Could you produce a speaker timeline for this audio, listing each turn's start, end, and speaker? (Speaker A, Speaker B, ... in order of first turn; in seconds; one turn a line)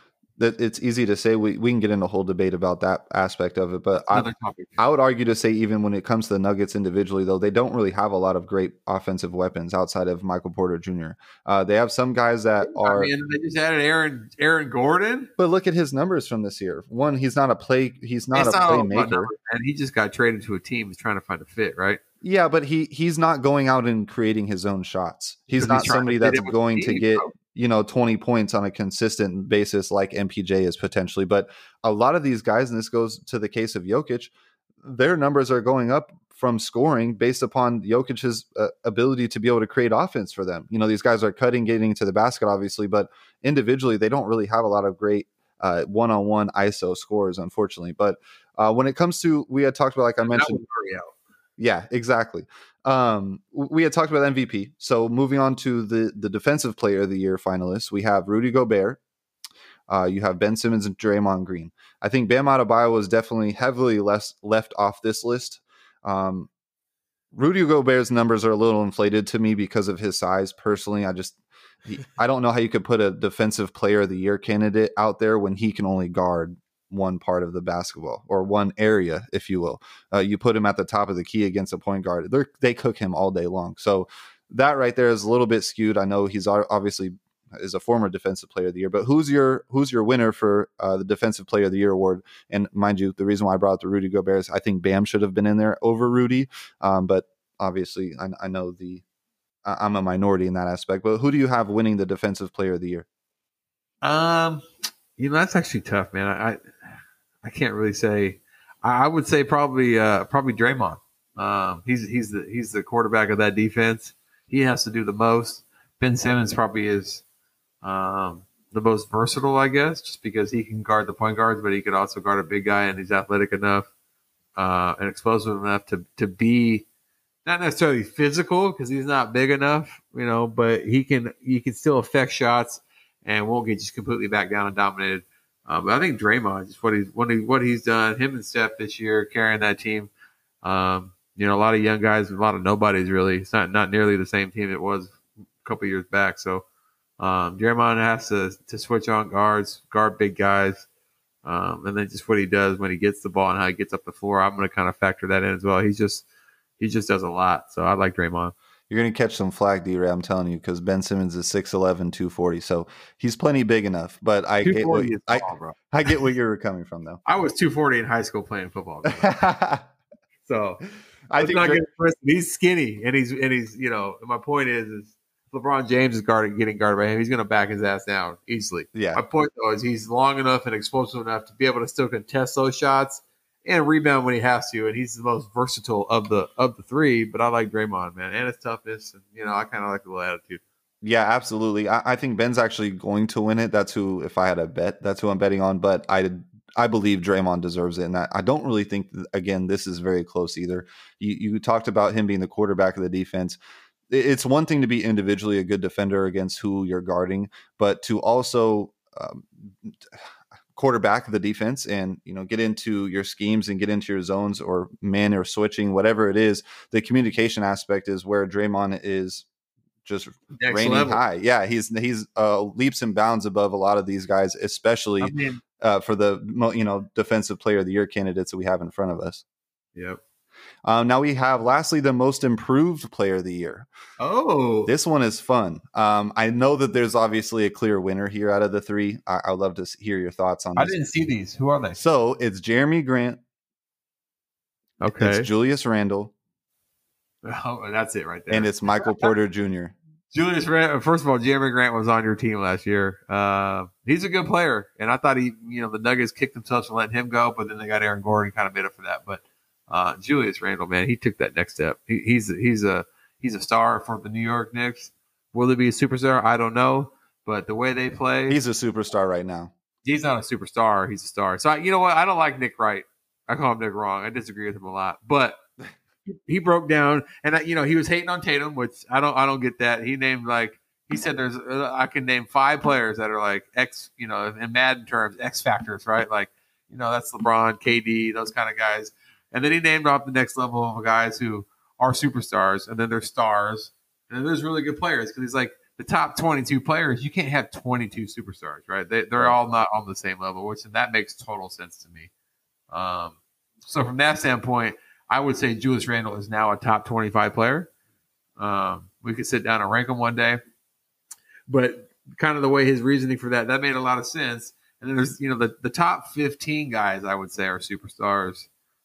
Speaker A: 0.4-13.1
Speaker B: 4.1-4.8
Speaker B: 12.6-15.3
Speaker A: 15.4-19.3
Speaker B: 18.3-22.0
Speaker A: 22.2-34.3
Speaker B: 25.6-27.3
Speaker A: 34.8-50.6
Speaker B: 50.2-51.1
Speaker A: 51.6-59.0
Speaker A: 59.9-66.5
Speaker A: 67.3-99.0
Speaker A: 99.6-103.0
Speaker B: 104.0-104.6
Speaker B: 105.2-106.7
Speaker B: 107.4-117.2
Speaker B: 117.8-123.9
Speaker B: 124.5-126.8
Speaker B: 127.4-140.1
Speaker B: 140.6-146.6
Speaker B: 147.2-150.8
Speaker B: 151.4-156.2
Speaker B: 156.8-158.5
Speaker A: 158.9-167.2
Speaker B: 164.6-166.1
Speaker B: 167.2-169.3
Speaker A: 169.1-169.8
Speaker B: 170.4-170.8
Speaker A: 171.3-171.8
Speaker B: 171.3-190.6
Speaker A: 178.9-179.2
Speaker A: 191.0-203.6
Speaker A: 204.1-209.9
Speaker A: 210.7-219.5
Speaker A: 220.0-229.4
Speaker B: 220.6-221.2
Speaker B: 225.2-225.6
Speaker A: 230.8-233.9
Speaker B: 234.2-234.9
Speaker A: 234.8-240.9
Speaker B: 240.8-242.0
Speaker A: 241.9-243.4
Speaker B: 245.0-245.5
Speaker A: 245.1-246.3
Speaker B: 247.4-249.3
Speaker A: 248.5-249.9
Speaker B: 250.3-268.6
Speaker A: 268.5-269.7
Speaker B: 270.0-275.6
Speaker B: 276.2-302.3
Speaker B: 302.9-303.3
Speaker B: 303.9-307.9
Speaker B: 308.6-310.6
Speaker B: 311.7-318.7